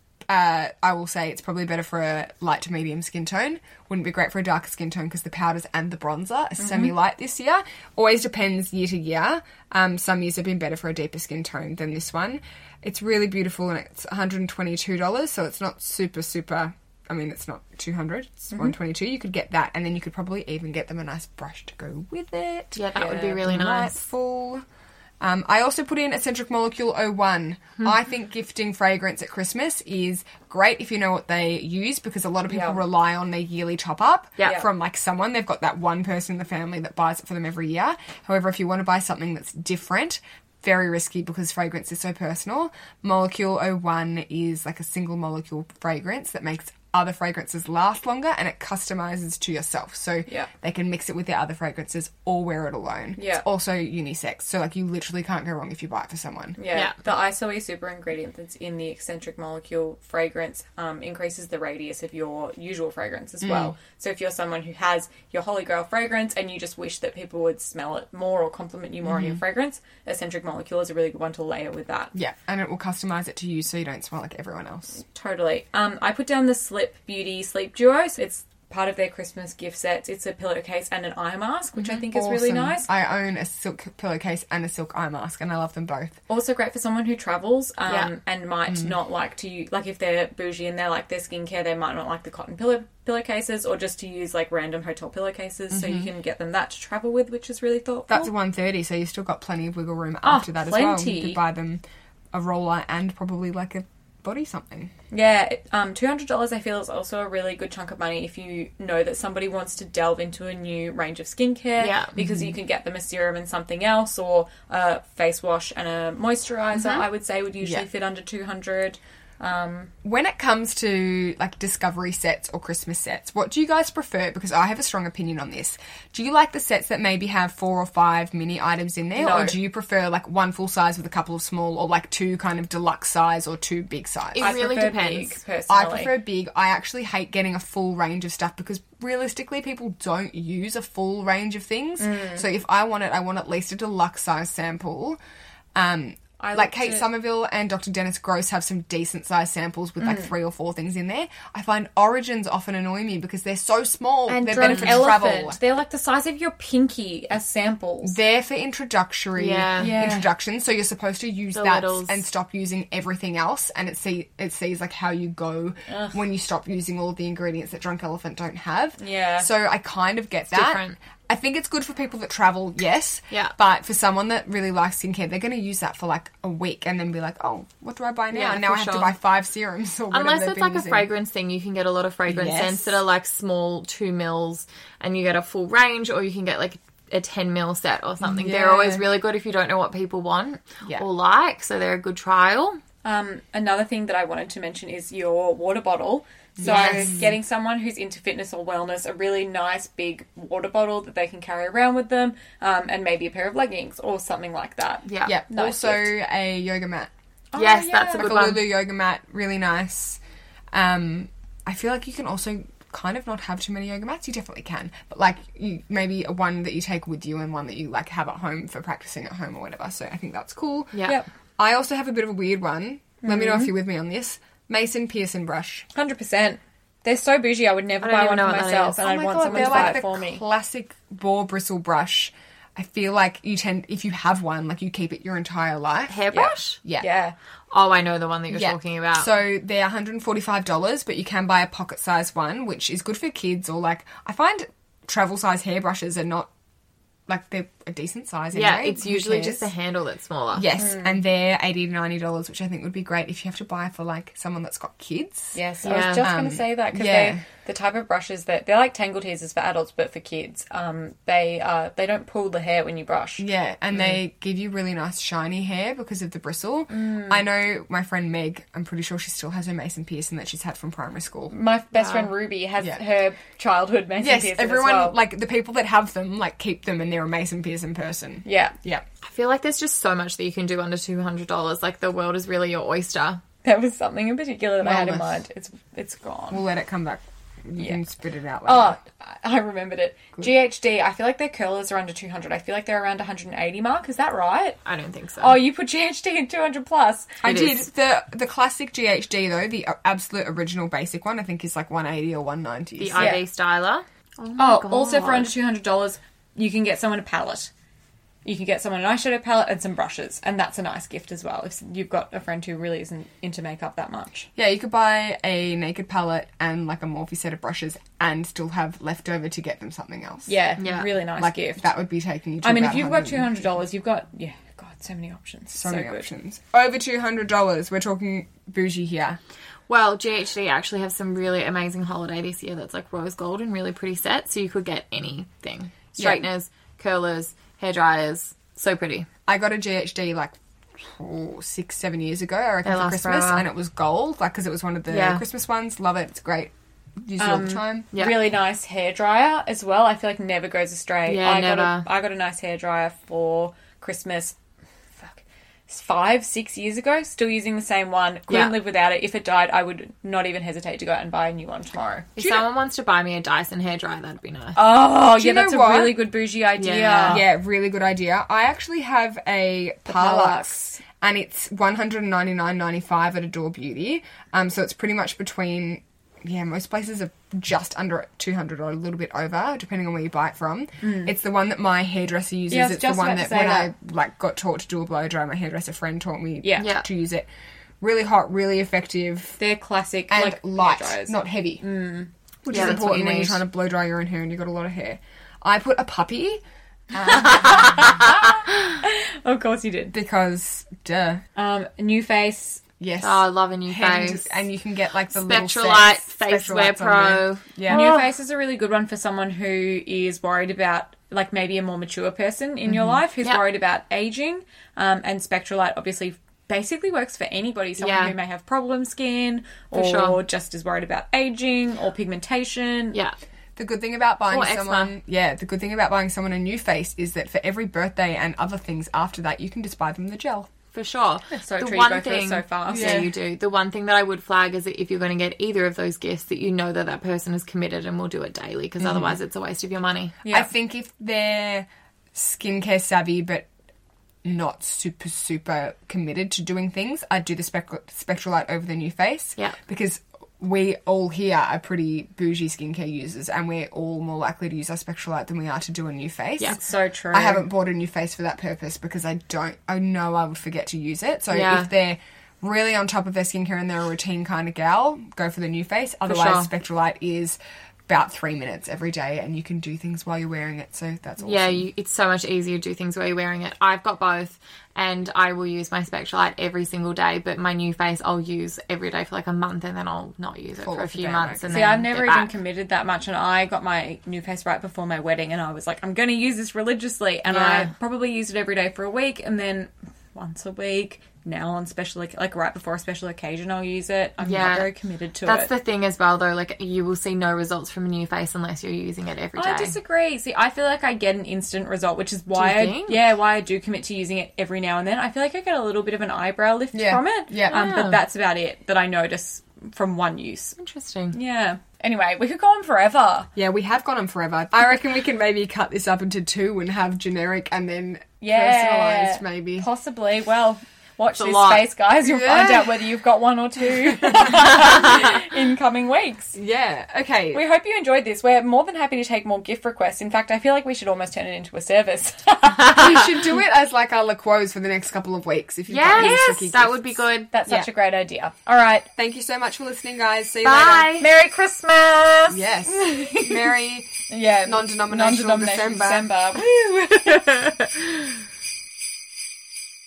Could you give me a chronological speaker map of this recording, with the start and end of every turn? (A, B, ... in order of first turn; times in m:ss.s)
0:00.3-0:24.6 A
0:06.6-0:06.9 B
0:22.8-0:24.0 C
0:23.0-0:23.4 B
0:25.2-0:56.6 A
0:32.5-0:32.8 B
0:34.4-0:34.6 C
0:53.2-0:53.5 B
0:56.6-1:12.1 B
0:56.7-0:57.0 C
1:03.4-1:03.8 A
1:09.0-1:09.4 A
1:12.1-1:15.0 A
1:15.1-1:22.9 B
1:21.8-1:26.2 A
1:26.3-1:38.3 B
1:27.9-1:28.1 C
1:35.7-1:36.1 A
1:38.1-1:44.9 A
1:40.2-1:41.4 B
1:45.1-1:59.9 B
1:51.8-1:52.2 C
1:52.2-1:52.5 A
1:56.8-1:57.0 C
2:00.0-2:14.5 A
2:09.2-2:09.6 B
2:14.4-2:15.4 C
2:14.4-2:16.2 B
2:15.7-2:25.2 A
2:22.0-2:22.5 B
2:25.8-2:35.6 A
2:26.4-2:27.1 B
2:30.0-2:30.3 B
2:34.3-2:38.2 B
2:38.0-3:01.1 A
2:39.4-2:40.0 C
2:39.8-2:40.3 B
2:41.6-2:42.2 C
2:45.9-2:46.2 B
2:49.0-2:49.5 B
2:50.5-2:51.0 C
2:58.3-2:59.2 C
3:00.1-3:12.8 C
3:02.3-3:03.1 A
3:08.2-3:09.1 A
3:13.0-3:26.2 B
3:16.6-3:17.3 A
3:16.6-3:17.3 C
3:25.1-3:25.3 C
3:25.2-3:27.1 A
3:27.5-3:28.3 B
3:27.6-3:28.6 C
3:28.1-3:30.2 A
3:30.7-3:41.0 A
3:40.9-3:41.2 C
3:41.6-3:45.9 A
3:43.2-3:43.7 B
3:46.0-3:50.4 B
3:48.0-3:50.0 C
3:49.0-3:56.2 A
3:56.1-3:56.8 C
3:56.3-3:57.4 B
3:57.7-3:59.3 C
3:58.5-4:06.5 A
4:07.3-4:09.7 A
4:08.5-4:10.7 C
4:10.5-4:17.5 A
4:10.8-4:11.2 B
4:15.5-4:24.2 B
4:15.8-4:16.3 C
4:23.4-4:31.5 A
4:26.9-4:27.5 B
4:31.5-4:35.2 B
4:31.9-4:32.3 C
4:34.2-4:39.0 A
4:38.4-4:38.8 B
4:39.2-4:43.4 C
4:43.6-4:46.6 B
4:44.8-4:45.4 A
4:46.5-4:49.0 A
4:48.6-4:54.8 B
4:54.8-4:55.6 C
4:55.4-4:57.4 B
4:57.4-5:03.4 A
4:57.4-4:57.8 C
5:03.0-5:05.5 C
5:03.2-5:03.4 B
5:04.6-5:07.7 B
5:08.4-5:14.5 B
5:14.6-5:20.6 A
5:20.5-5:21.9 B
5:20.8-5:21.1 C
5:21.4-5:23.8 A
5:22.6-5:26.3 B
5:25.7-5:29.4 A
5:29.9-5:39.3 C
5:36.2-5:36.5 A
5:39.5-5:48.1 A
5:42.8-5:43.7 C
5:45.1-5:45.4 C
5:47.4-5:54.6 B
5:48.1-5:48.4 C
5:51.3-5:52.1 C
5:55.2-6:02.3 B
5:58.5-5:58.7 C
6:02.4-6:02.7 A
6:02.4-6:04.8 C
6:04.8-6:07.4 B
6:05.3-6:06.2 A
6:06.8-6:07.4 C
6:07.3-6:27.5 A
6:10.1-6:11.0 B
6:21.0-6:21.3 B
6:22.7-6:23.9 B
6:26.6-6:27.0 B
6:26.8-6:27.1 C
6:28.0-6:29.6 A
6:29.6-6:33.0 B
6:30.3-6:31.8 A
6:32.6-6:36.6 A
6:32.7-6:33.6 C
6:37.1-6:38.2 A
6:37.3-6:40.2 B
6:40.1-6:41.4 A
6:41.6-6:42.8 B
6:43.0-6:48.1 A
6:43.2-6:44.6 C
6:45.3-6:48.2 C
6:47.9-7:03.2 B
6:58.0-6:58.4 C
6:59.9-7:00.4 C
7:03.8-7:10.7 A
7:04.5-7:05.2 C
7:10.9-7:20.4 C
7:11.5-7:13.3 B
7:12.9-7:13.3 A
7:19.0-7:19.4 A
7:20.4-7:20.7 B
7:20.5-7:23.7 A
7:24.4-7:36.8 A
7:36.6-7:37.7 B
7:37.3-7:51.9 A
7:41.5-7:41.9 C
7:46.3-7:46.7 C
7:51.4-8:02.5 C
8:00.8-8:02.0 A
8:01.7-8:15.7 B
8:07.5-8:07.9 C
8:14.4-8:14.9 C
8:15.4-8:20.0 C
8:19.6-8:30.8 B
8:22.6-8:23.2 C
8:26.9-8:28.1 A
8:27.7-8:28.2 C
8:30.8-8:31.4 C
8:31.3-8:33.5 B
8:33.6-8:39.9 A
8:38.4-8:46.6 B
8:41.4-8:41.9 C
8:42.2-8:43.0 A
8:43.9-8:45.4 A
8:46.6-8:47.6 A
8:47.5-8:53.2 B
8:52.9-8:57.9 A
8:55.9-8:57.5 C
8:56.1-8:56.6 B
8:57.5-8:59.1 B
8:59.2-9:01.2 A
9:00.6-9:01.3 C
9:01.2-9:03.6 B
9:02.5-9:06.3 A
9:04.3-9:07.5 B